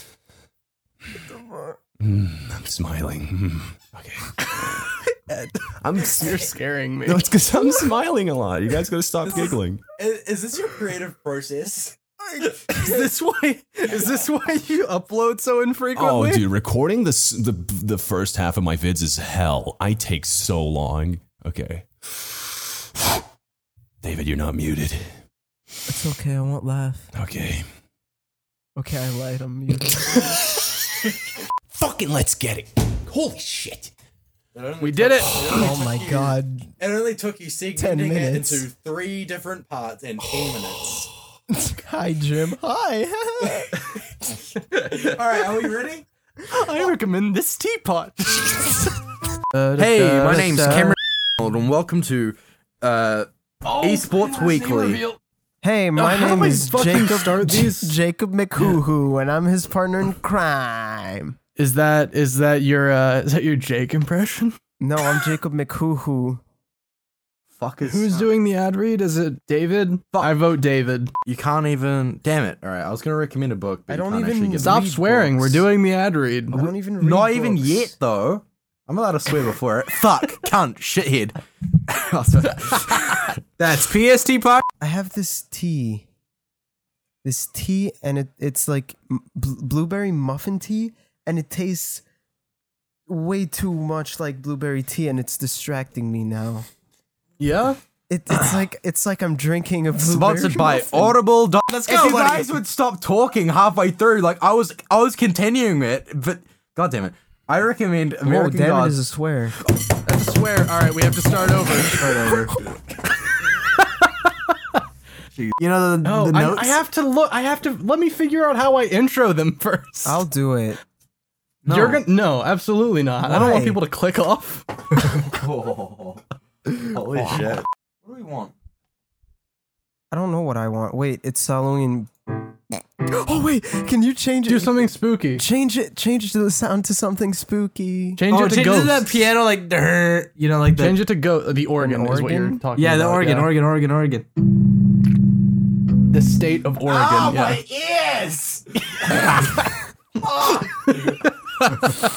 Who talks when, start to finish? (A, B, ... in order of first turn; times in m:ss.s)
0:01.2-0:01.8 A
0:02.0-0:05.0 B
0:05.3-0:07.3 C
0:05.8-0:06.5 B
0:07.0-0:09.8 B
0:09.4-0:12.0 D
0:12.3-0:13.0 A
0:12.6-0:16.4 C
0:16.0-0:22.4 B
0:24.0-0:25.2 B
0:25.9-0:27.1 A
0:27.1-0:27.7 B
0:28.8-0:30.4 A
0:29.9-0:31.1 B
0:31.7-0:33.9 B
0:34.5-0:41.1 D
0:34.8-0:35.4 C
0:35.5-0:36.7 A
0:37.7-0:38.7 A
0:41.5-0:43.8 A
0:44.7-0:46.0 D
0:44.7-0:45.2 C
0:46.4-0:48.9 C
0:49.5-0:51.0 C
0:49.8-0:55.0 D
0:53.7-0:55.2 C
0:55.6-1:01.4 A
0:56.0-0:58.0 C
1:01.6-1:04.6 C
1:04.8-1:06.4 A
1:07.5-1:08.3 D
1:07.9-1:11.1 C
1:11.2-1:14.8 D
1:13.9-1:15.7 A
1:14.6-1:16.6 C
1:16.5-1:17.9 A
1:17.0-1:24.6 D
1:24.8-1:26.0 A
1:27.2-1:32.0 A
1:33.1-1:36.7 A
1:37.4-1:37.8 C
1:38.1-1:41.2 A
1:40.0-1:49.0 D
1:41.7-1:42.5 E
1:48.2-1:49.6 A
1:50.0-1:52.3 C
1:51.9-1:52.5 D
1:53.8-1:54.8 C
1:55.4-1:55.7 D
1:55.6-1:56.7 E
1:56.0-2:00.2 C
2:00.0-2:00.8 A
2:01.6-2:02.0 D
2:01.7-2:04.7 C
2:03.2-2:03.8 A
2:05.1-2:06.2 D
2:06.7-2:08.5 D
2:10.1-2:12.1 A
2:12.7-2:18.2 A
2:14.5-2:15.4 C
2:18.2-2:19.1 C
2:18.3-2:20.9 D
2:20.7-2:23.5 C
2:21.8-2:22.6 A
2:22.8-2:24.2 D
2:23.4-2:24.2 E
2:26.1-2:27.6 C
2:26.9-2:29.3 D
2:29.0-2:29.5 C
2:30.8-2:32.1 C